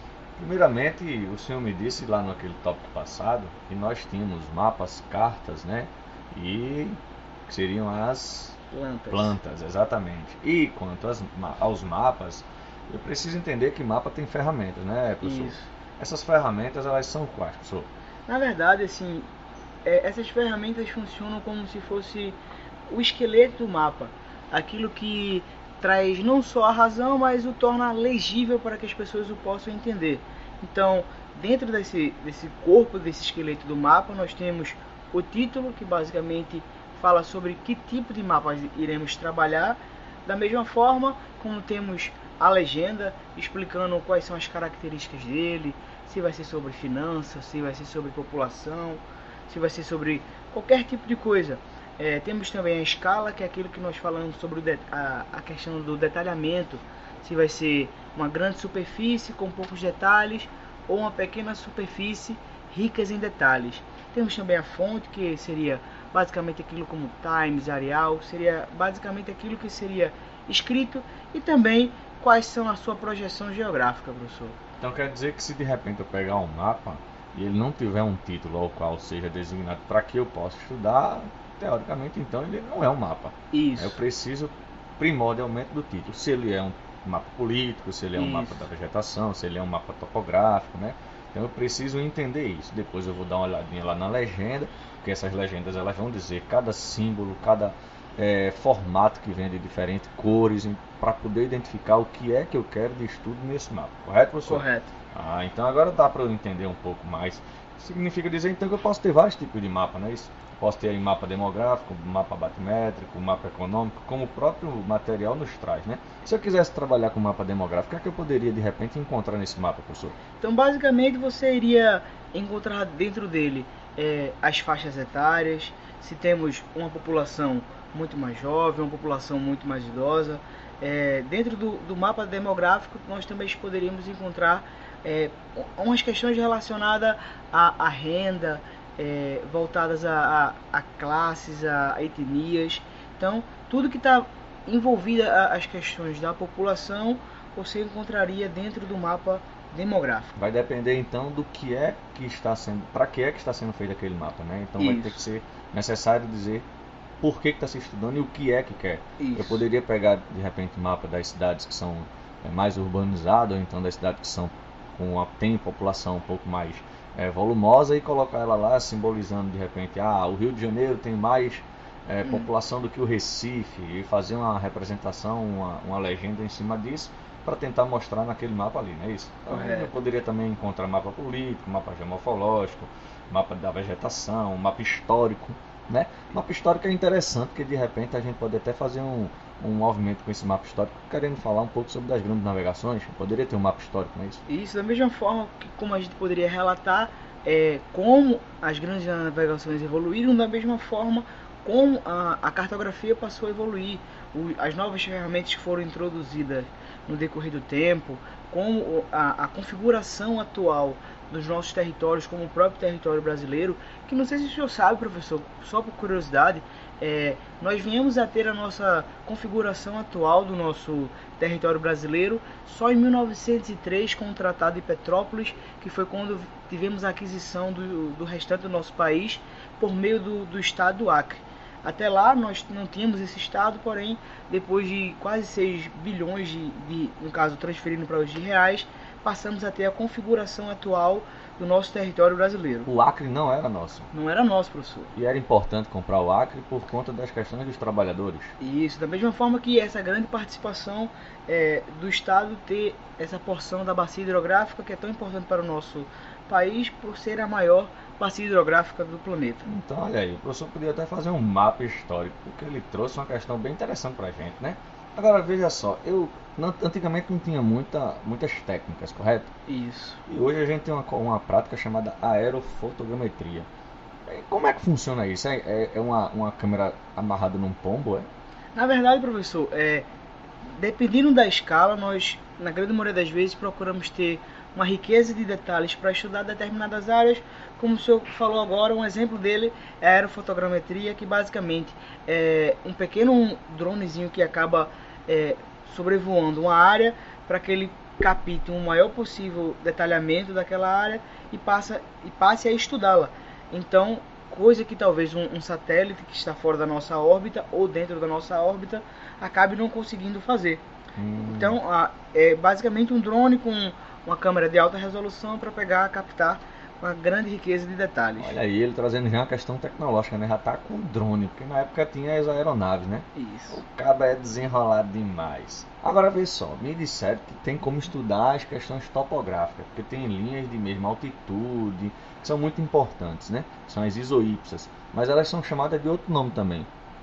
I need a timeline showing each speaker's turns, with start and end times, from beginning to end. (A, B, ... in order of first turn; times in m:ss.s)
0:00.4-0:08.6 A
0:08.7-0:09.4 B
0:09.1-0:17.9 A
0:15.2-0:15.7 B
0:18.3-0:19.3 B
0:19.8-0:22.4 B
0:22.9-1:14.6 B
1:14.8-2:00.2 A
1:23.5-1:24.0 B
1:28.1-1:28.6 B
1:44.4-1:44.9 B
2:00.4-2:30.3 B
2:30.4-2:36.6 A
2:34.8-2:35.2 B
2:37.2-3:14.4 A
2:39.2-2:39.6 B
2:59.5-2:59.9 B
3:14.5-4:02.9 B
4:02.8-4:04.1 A
4:04.1-4:05.1 B
4:05.1-4:08.5 A
4:08.6-4:19.7 B
4:19.7-4:29.5 A
4:29.7-4:30.2 B
4:30.3-4:33.7 A
4:34.2-4:38.3 A
4:38.7-4:40.1 B
4:40.6-5:10.8 B
5:11.2-5:11.8 A
5:11.4-5:18.6 B
5:18.4-5:36.9 A
5:23.3-5:23.8 B